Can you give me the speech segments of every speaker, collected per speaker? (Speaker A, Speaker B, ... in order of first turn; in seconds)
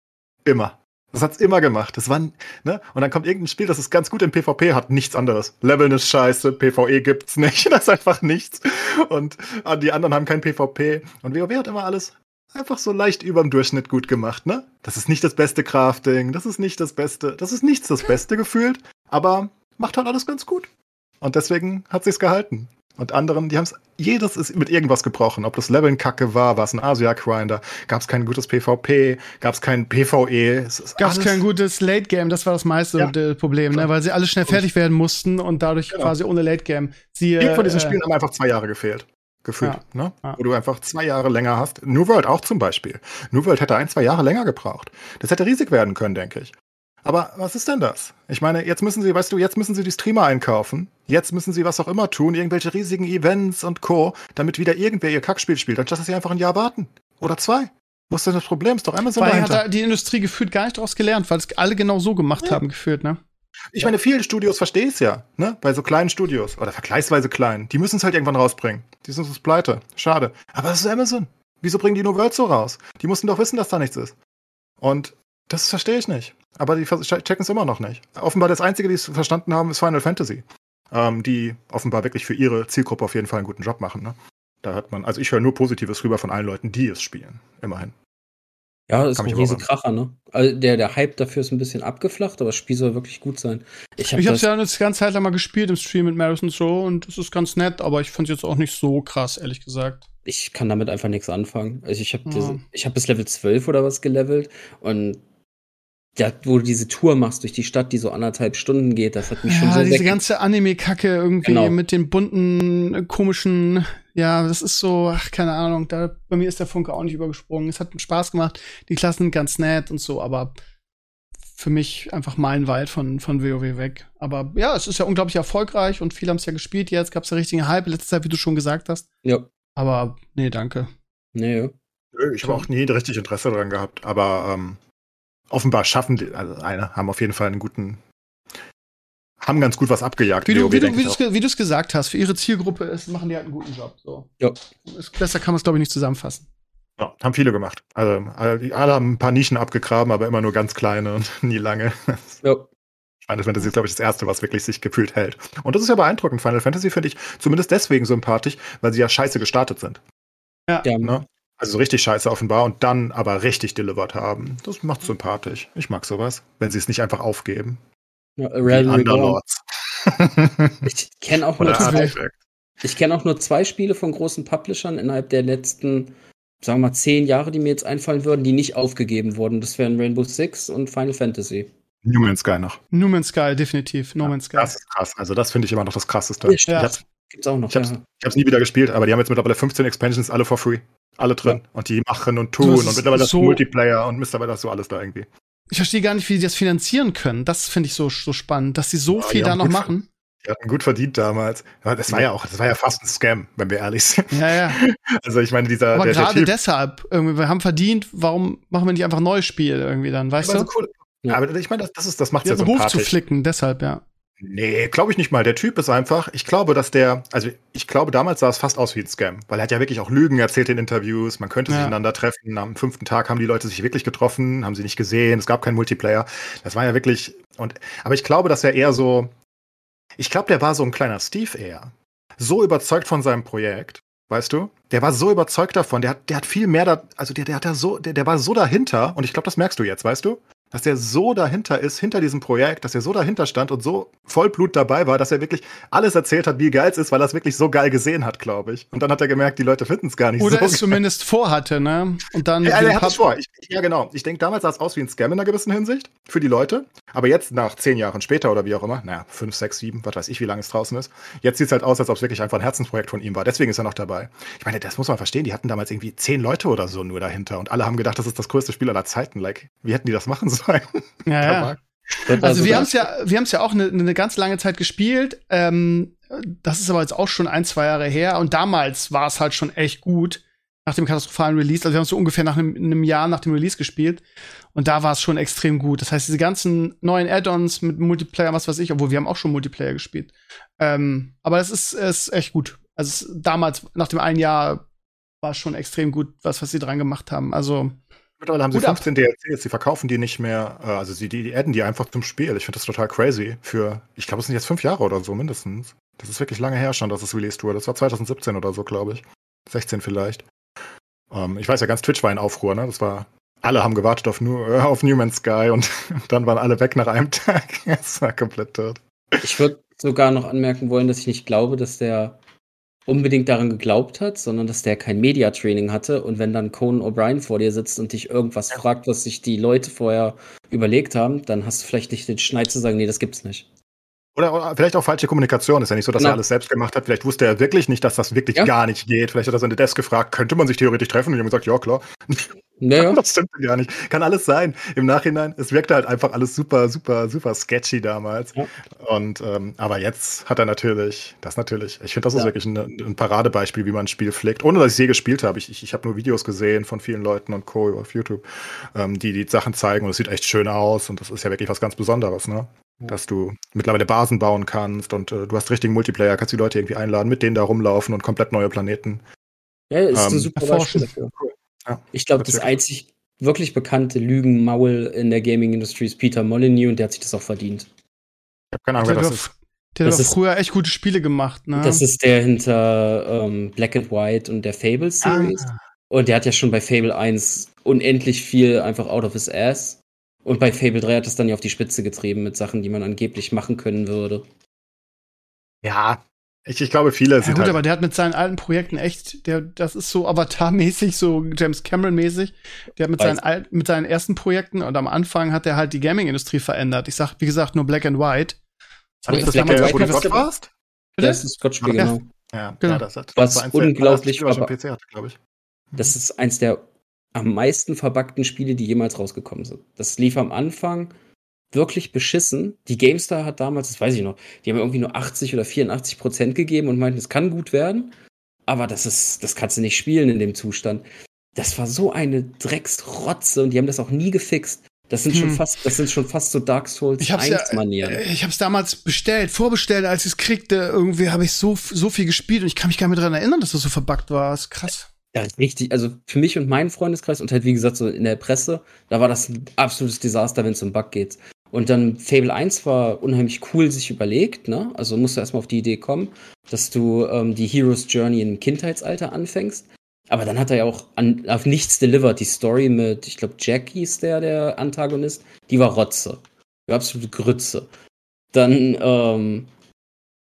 Speaker A: 0.4-20.7, 21.2-31.4, 37.4-59.6, 63.7-74.1, 74.8-87.9, 89.2-89.6, 132.1-134.8, 135.5-138.0, 139.4-141.2, 147.0-152.4, 153.2-160.0, 161.0-167.8, 168.6-170.9, 171.6-172.3, 182.0-182.8, 184.2-187.0, 187.7-195.3, 199.1-199.9, 200.4-206.5, 210.4-213.2, 214.4-229.3, 230.2-251.0, 252.6-273.0, 298.4-310.4, 311.3-319.4, 334.4-369.2, 370.1-370.5, 371.4-372.8, 378.7-379.5, 385.2-385.8, 395.8-397.8, 409.2-410.7, 411.8-415.4
Speaker B: 31.0-38.0, 39.6-40.4, 59.2-63.2, 94.1-100.0, 102.3-102.6, 109.5-120.5, 121.5-129.1, 129.8-130.9, 140.5-144.3, 144.9-146.4, 171.7-172.2, 182.9-184.7, 186.7-187.0, 192.6-193.6, 195.7-200.1, 204.3-204.8, 205.9-210.7, 212.4-214.0, 221.7-221.9, 250.4-253.2, 271.2-271.7, 272.4-284.2, 284.7-294.8, 295.4-298.0, 298.7-299.0, 370.6-371.1, 379.0-382.0, 397.4-408.6, 409.3-410.4, 411.2-411.4, 435.3-435.6, 437.2-445.1
Speaker C: 88.9-94.5, 100.2-105.2, 106.2-110.2, 111.4-111.8, 131.3-131.7, 160.8-161.2, 168.4-169.4, 170.8-172.1, 172.8-181.7, 186.4-188.0, 272.3-272.9, 319.4-322.4, 323.1-333.6, 342.8-343.2, 369.9-371.3, 372.1-377.9, 380.0-380.3, 381.8-394.4, 409.3-410.5, 411.2-412.2, 413.4-414.7, 416.0-416.8, 417.3-421.1, 421.7-428.1, 428.7-438.2, 445.3-467.9, 468.5-469.7